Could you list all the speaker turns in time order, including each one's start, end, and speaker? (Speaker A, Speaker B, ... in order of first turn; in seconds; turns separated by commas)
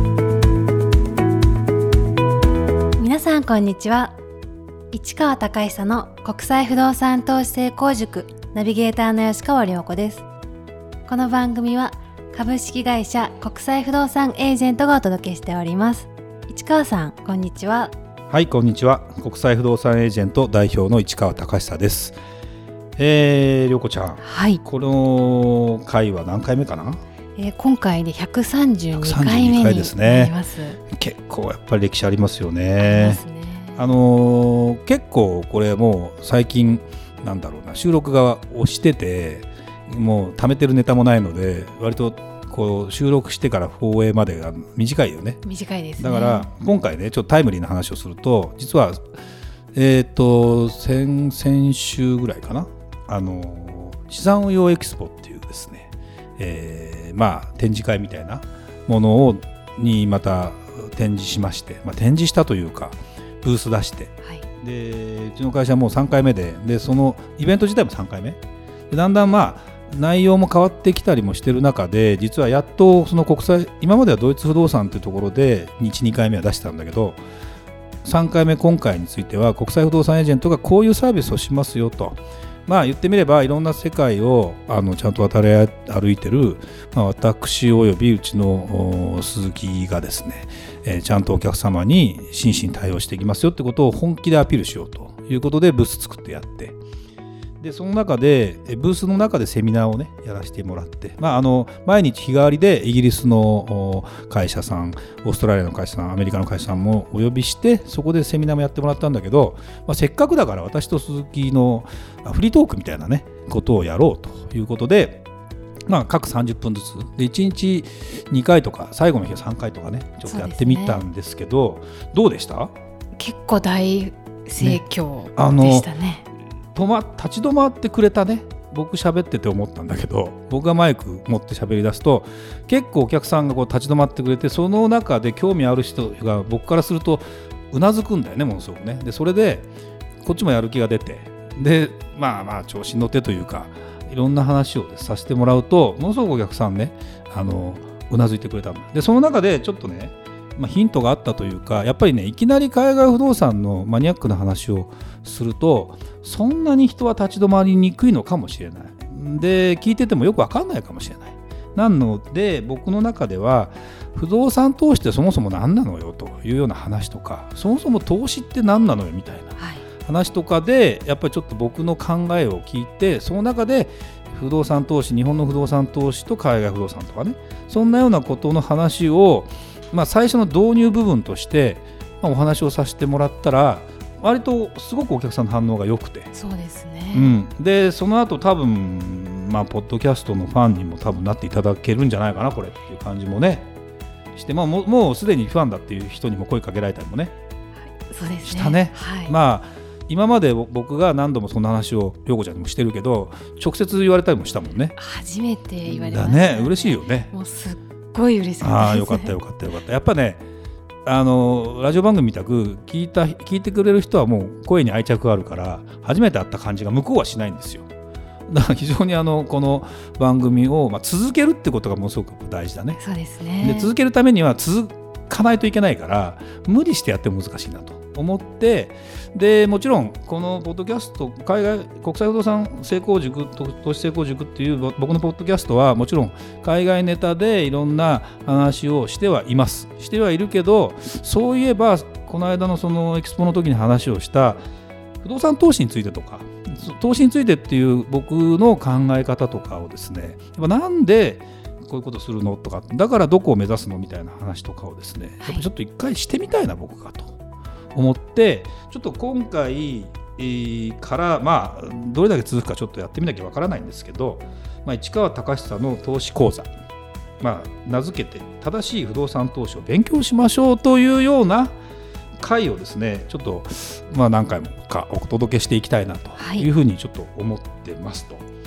Speaker A: 3.0-4.2, Speaker A: 4.9-10.2, Speaker A: 11.1-17.9, Speaker B: 18.3-22.2, Speaker B: 23.0-27.0, Speaker A: 24.2-24.6, Speaker A: 27.4-30.8, Speaker B: 28.9-30.3, Speaker B: 30.9-33.2, Speaker A: 32.8-33.8, Speaker B: 33.8-45.4, Speaker A: 45.4-46.5, Speaker B: 46.0-49.0, Speaker B: 49.7-77.2, Speaker B: 78.0-96.8, Speaker B: 97.6-115.2, Speaker B: 115.9-122.7, Speaker A: 120.2-121.0, Speaker A: 123.2-126.2, Speaker B: 125.3-125.9, Speaker B: 126.7-139.7, Speaker B: 140.2-186.3, Speaker A: 169.6-169.8, Speaker A: 186.3-187.3, Speaker B: 187.1-193.7, Speaker B: 194.3-197.3, Speaker A: 198.0-199.3, Speaker B: 198.4-204.9, Speaker A: 204.9-209.3, Speaker B: 205.8-207.3, Speaker B: 208.6-210.4, Speaker B: 211.0-217.9, Speaker B: 218.5-223.0, Speaker A: 223.0-223.9, Speaker B: 223.6-244.6, Speaker B: 245.2-257.4, Speaker B: 257.9-266.7, Speaker B: 267.4-271.7, Speaker B: 272.4-278.4, Speaker A: 276.4-276.7